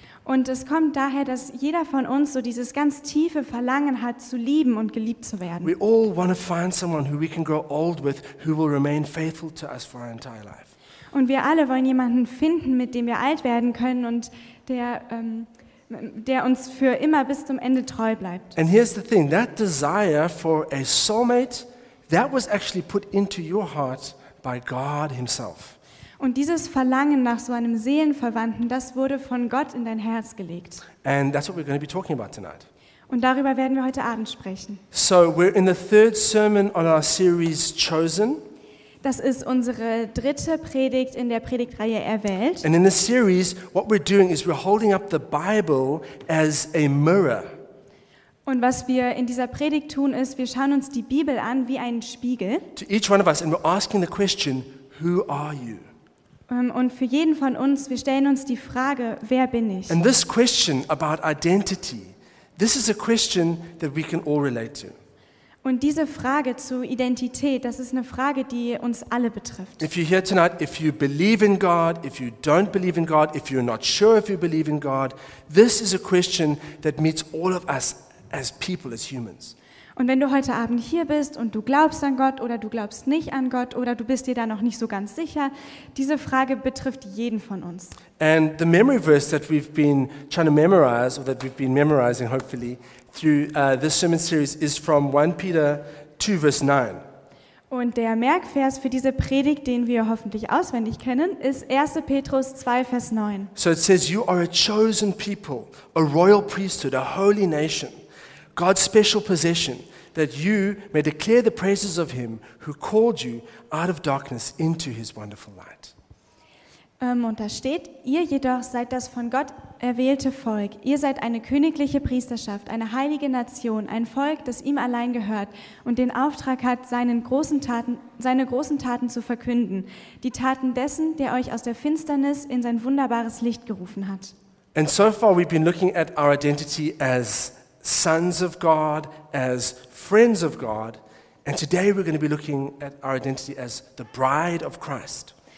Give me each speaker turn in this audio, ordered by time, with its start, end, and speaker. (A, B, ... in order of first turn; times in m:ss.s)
0:00.2-0:05.7 A
0:05.6-0:10.7 B
0:11.1-0:18.5 A
0:18.6-0:25.8 B
0:26.2-0:30.8 A
0:31.0-0:32.7 B
0:33.1-0:34.8 A
0:34.9-0:38.4 B
0:39.0-0:42.6 A
0:42.6-0:47.5 B
0:48.4-0:52.7 A
0:52.7-0:55.9 B
0:56.5-1:00.0 A
0:59.9-1:05.0 B
1:05.6-1:09.8 A
1:09.8-1:19.5 B
1:20.0-1:28.0 A
1:28.2-1:37.0 B
1:37.7-1:43.5 A
1:43.6-1:48.0 B
1:48.6-1:55.9 B
1:57.0-2:14.3 A
2:14.7-2:25.3 B